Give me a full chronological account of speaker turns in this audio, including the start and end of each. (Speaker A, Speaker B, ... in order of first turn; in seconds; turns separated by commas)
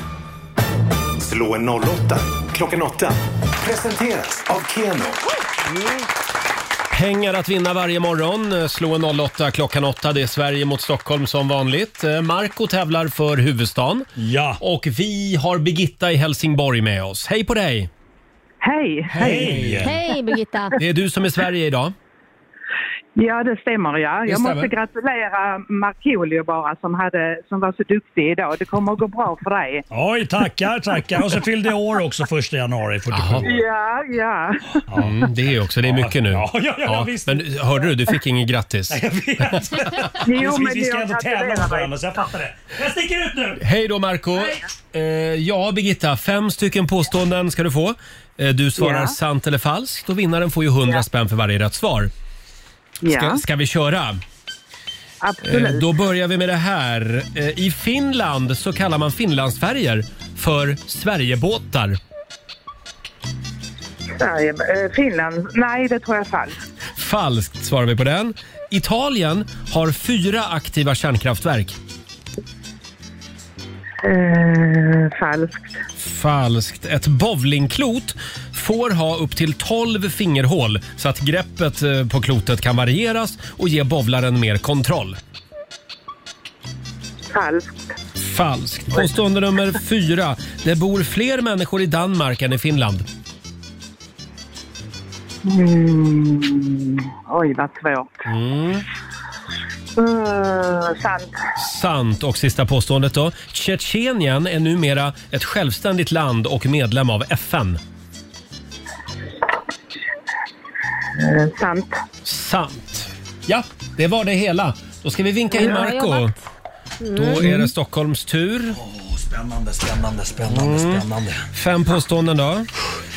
Speaker A: 1.2-5.2, Speaker B: 6.9-14.1, Speaker C: 14.2-14.6, Speaker B: 14.6-17.9, Speaker D: 18.6-19.5, Speaker B: 19.1-19.9, Speaker C: 19.2-19.9, Speaker E: 19.8-20.8, Speaker B: 20.8-21.9, Speaker D: 23.2-29.9, Speaker B: 24.3-24.7, Speaker C: 29.9-33.6, Speaker B: 33.1-33.5, Speaker D: 33.5-34.8, Speaker C: 34.9-35.3, Speaker B: 34.9-40.2, Speaker C: 35.8-37.9, Speaker C: 38.9-43.6, Speaker D: 40.2-41.9, Speaker B: 43.6-52.1, Speaker D: 48.8-49.1, Speaker D: 53.0-53.4, Speaker B: 53.1-54.2, Speaker D: 55.2-55.9, Speaker B: 55.4-62.0, Speaker D: 64.1-66.6, Speaker B: 67.0-71.8, Speaker D: 74.0-75.8, Speaker B: 76.0-85.2, Speaker D: 87.3-87.9, Speaker B: 88.2-93.1, Speaker D: 95.4-98.2, Speaker B: 98.3-98.9, Speaker D: 100.0-101.4, Speaker B: 101.6-107.8, Speaker D: 111.2-112.0, Speaker B: 112.2-116.3, Speaker E: 115.5-116.4, Speaker E: 117.0-117.5, Speaker B: 117.1-118.8, Speaker C: 118.7-121.5, Speaker B: 120.5-122.7